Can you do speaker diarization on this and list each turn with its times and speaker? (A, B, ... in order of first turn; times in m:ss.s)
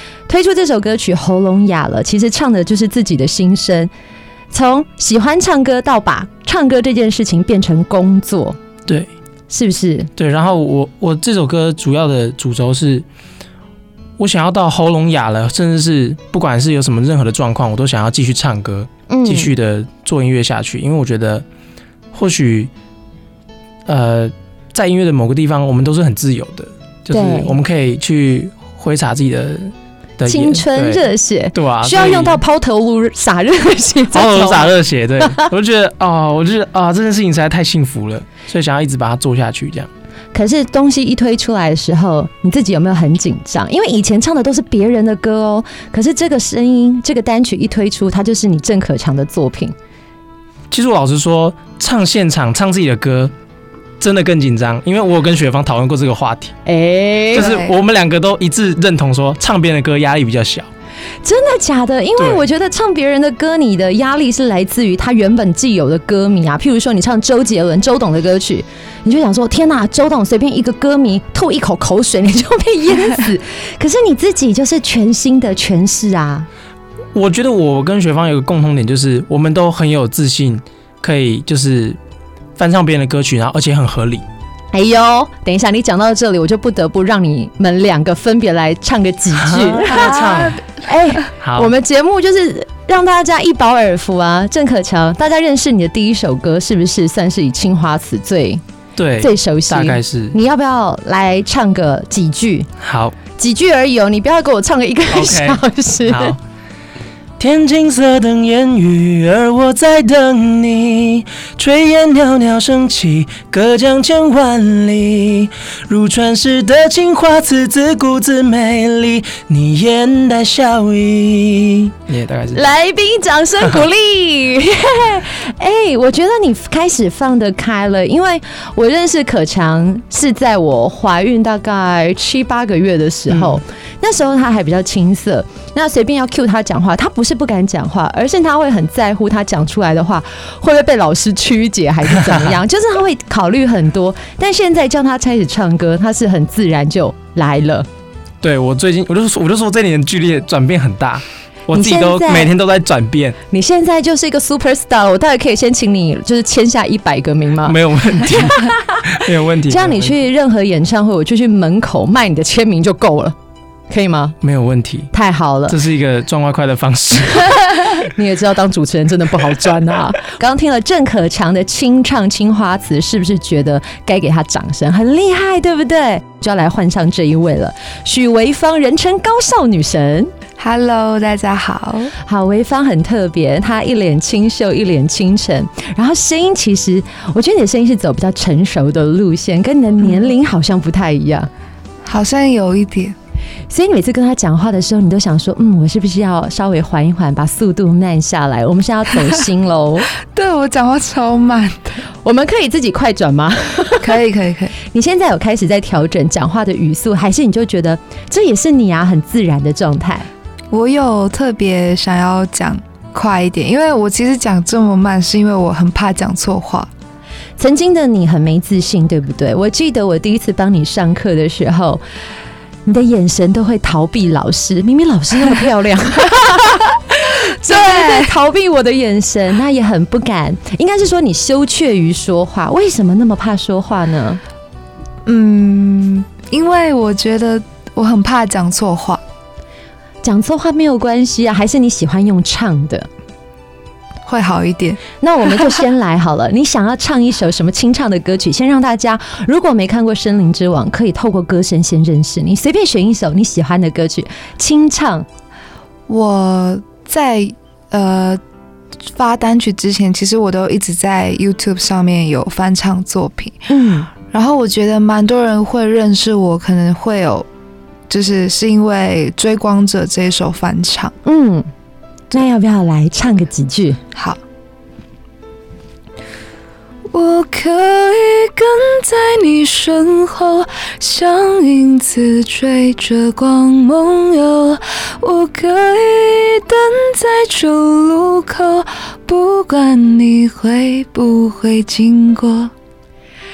0:00.3-0:03.9 A
0:04.5-0:08.6 A
0:09.5-0:10.1 A
0:10.2-0:13.0 B
0:14.2-0:21.4 B
0:19.1-0:19.5 A
0:22.1-0:22.7 B
0:23.8-0:32.4 B
0:27.1-0:27.6 A
0:30.2-0:35.5 A
0:34.1-0:39.9 B
0:40.3-0:49.7 A
0:50.7-0:53.3 B
0:54.0-0:56.5 B
0:56.6-0:57.5 A
0:57.3-0:57.8 C
0:57.3-1:00.7 B
1:01.2-1:16.5 A
1:17.1-1:22.0 B
1:22.6-1:24.2 B
1:24.7-1:38.6 A
1:29.3-1:30.6 B
1:29.9-1:30.5 C
1:31.4-1:31.7 B
1:39.0-1:40.3 B
1:39.2-1:42.7 A
1:42.8-1:43.2 B
1:43.4-1:46.4 A
1:45.1-1:46.4 B
1:47.4-2:02.7 B
2:02.5-2:27.9 A
2:13.3-2:13.6 B
2:22.1-2:22.6 B
2:28.4-2:33.4 B
2:31.7-2:32.5 A
2:33.5-2:43.4 A
2:37.6-2:40.2 B
2:43.9-2:44.4 A
2:44.4-2:45.1 B
2:45.1-2:45.8 A
2:45.7-2:47.6 B
2:47.8-3:00.3 A
3:00.6-3:02.1 C
3:02.2-3:11.5 A
3:12.0-3:13.2 C
3:13.7-3:20.1 A
3:20.3-3:22.0 C
3:22.2-3:24.2 A
3:24.0-3:24.7 C
3:24.8-3:30.3 A
3:30.7-3:36.9 C
3:37.6-3:42.0 A
3:42.8-3:54.4 A
3:47.6-3:48.3 C
3:55.2-3:59.2 C
4:00.2-4:03.1 A
4:04.2-4:05.0 C
4:05.2-4:15.2 A
4:16.1-4:18.4 C
4:19.1-4:27.5 C
4:23.7-4:24.1 A
4:28.1-4:31.1 C
4:31.2-4:31.7 A
4:32.3-4:34.0 A
4:34.1-4:34.4 C
4:37.1-4:52.7 C